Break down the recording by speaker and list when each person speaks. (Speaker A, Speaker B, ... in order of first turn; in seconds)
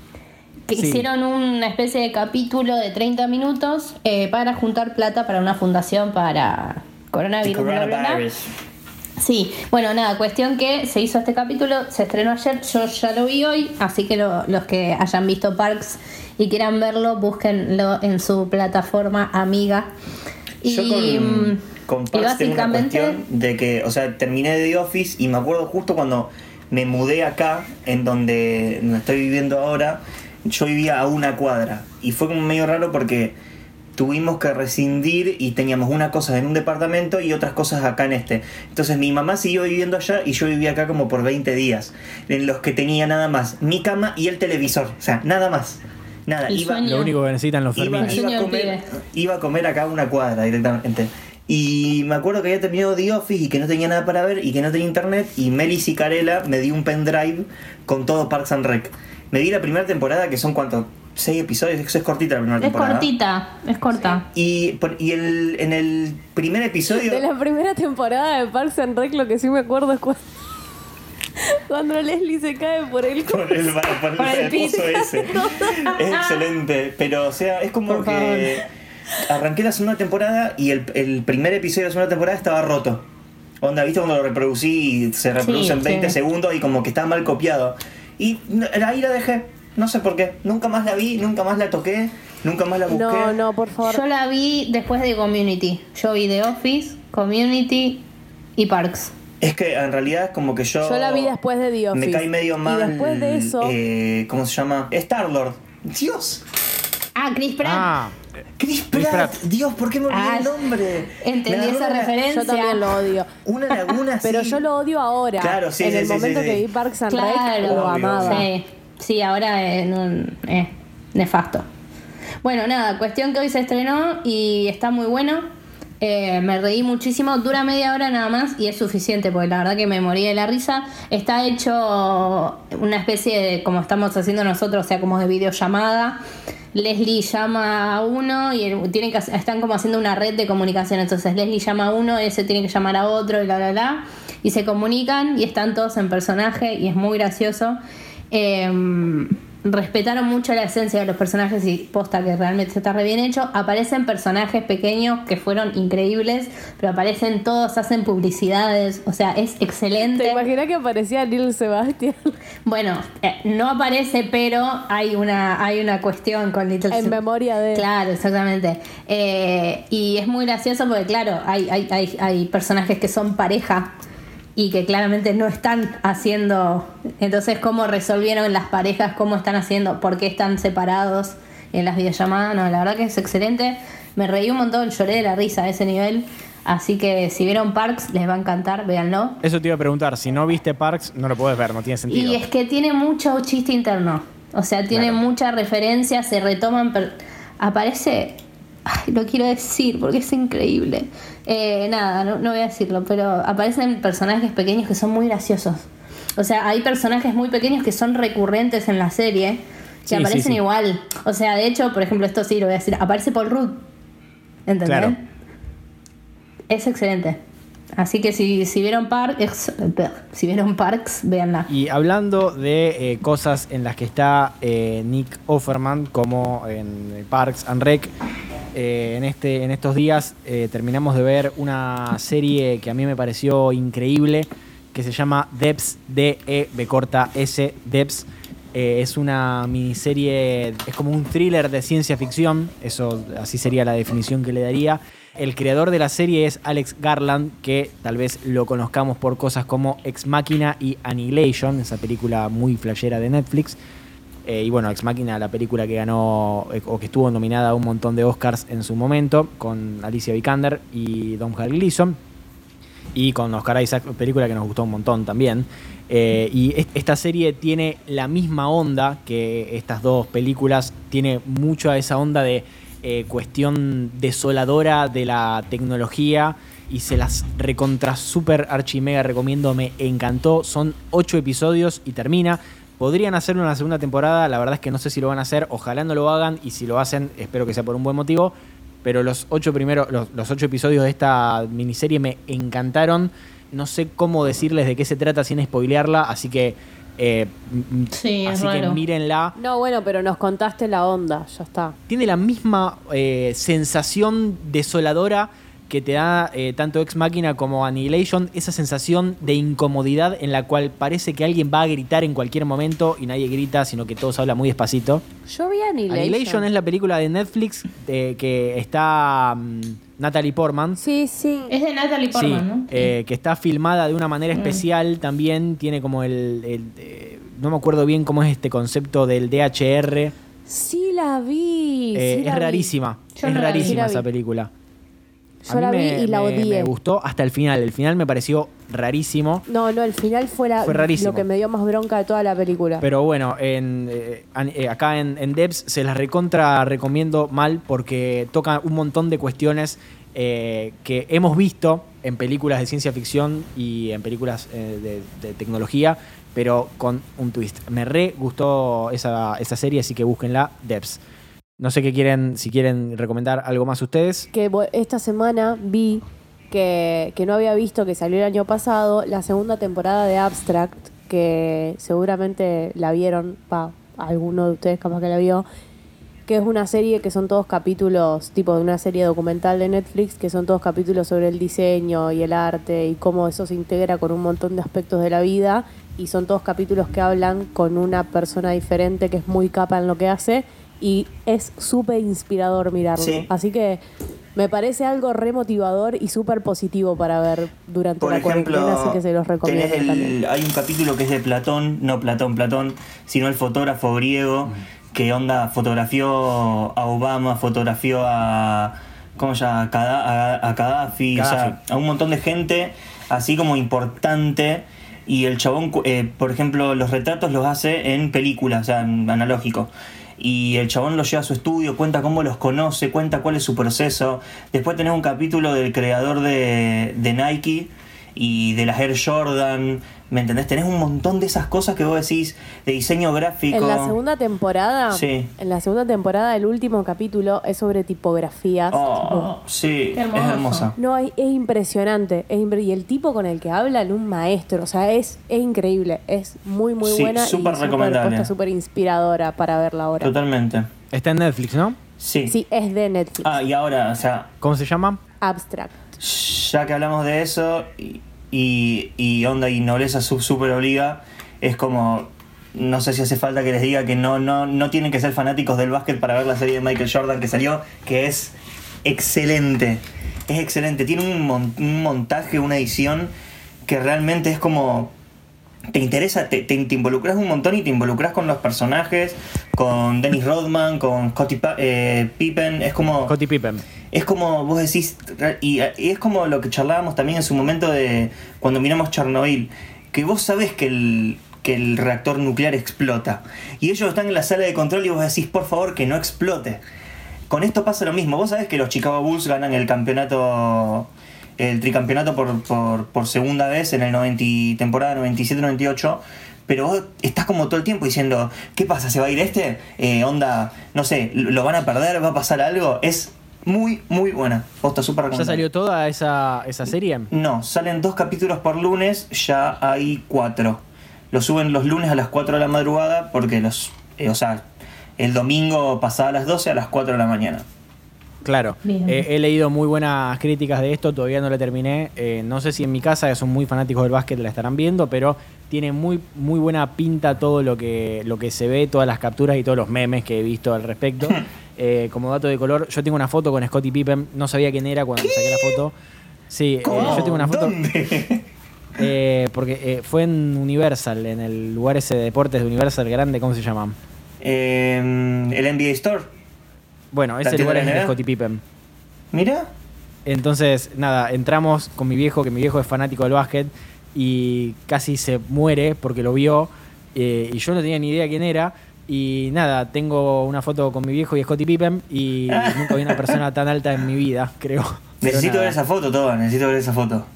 Speaker A: 0.7-8.2, 9.2-19.9, 20.6-23.2, 46.5-47.2, 48.0-48.9, 62.6-64.2, 74.2-75.0, 76.0-76.3, 85.4-86.2, 93.8-98.0, 98.6-99.1, 107.2-107.9, 110.1-110.6, 111.2-112.8, 117.1-121.7, 122.4-125.4, 126.0-136.2, 136.7-147.8, 148.3-160.4, 162.7-167.2, 167.7-173.9, 174.6-189.4, 192.1-205.9, 206.4-213.8, 214.7-215.2, 216.7-217.4, 218.0-221.7, 298.1-299.0, 321.7-323.1, 324.6-324.8, 333.4-334.0, 440.1-440.9, 528.8-529.3
Speaker B: 0.7-1.1, 46.8-48.2, 107.6-108.2, 108.9-109.5, 189.4-192.4, 194.9-195.2, 210.1-210.6, 214.8-215.2, 221.7-228.1, 228.7-253.8, 254.4-262.2, 263.1-299.6, 302.1-315.2, 316.1-321.0, 322.3-330.3, 332.1-334.7, 335.6-339.6, 340.8-341.5, 343.0-361.2, 361.8-364.5, 411.4-411.8, 451.1-452.0, 454.6-455.2, 483.2-483.8, 515.3-517.3, 528.4-545.9, 546.5-547.8, 549.0-554.0, 557.1-558.6, 560.3-575.8
Speaker C: 7.4-8.5, 20.7-33.4, 34.0-46.9, 47.8-63.1, 64.3-67.3, 73.3-78.7, 79.2-83.0, 83.6-93.4, 99.4-101.3, 101.9-106.4, 108.6-112.2, 113.5-114.7, 115.4-116.6, 117.6-118.5, 393.2-393.5, 398.2-434.2, 435.1-435.5, 438.9-441.0, 447.0-448.5, 450.2-450.9, 452.2-452.5, 453.4-454.5, 456.2-473.3, 473.9-475.1, 475.9-483.3, 484.1-496.8, 497.5-515.6, 517.3-524.6, 525.2-527.6, 545.2-545.8, 546.8-548.4, 554.4-556.3, 557.4-558.1, 559.3-559.7, 572.5-573.4, 575.2-577.3
Speaker D: 66.9-70.2, 71.4-76.0, 77.9-78.6, 92.9-94.0, 100.8-103.8, 112.3-113.3, 114.2-118.5, 160.0-162.3, 166.9-167.9, 299.6-302.0, 315.5-316.6, 321.0-321.7, 330.7-332.9, 333.4-334.3, 335.7-336.9, 339.7-343.1, 364.5-375.6, 376.5-394.0, 394.6-400.3, 433.7-439.5, 441.0-450.3, 452.5-453.5, 455.4-455.9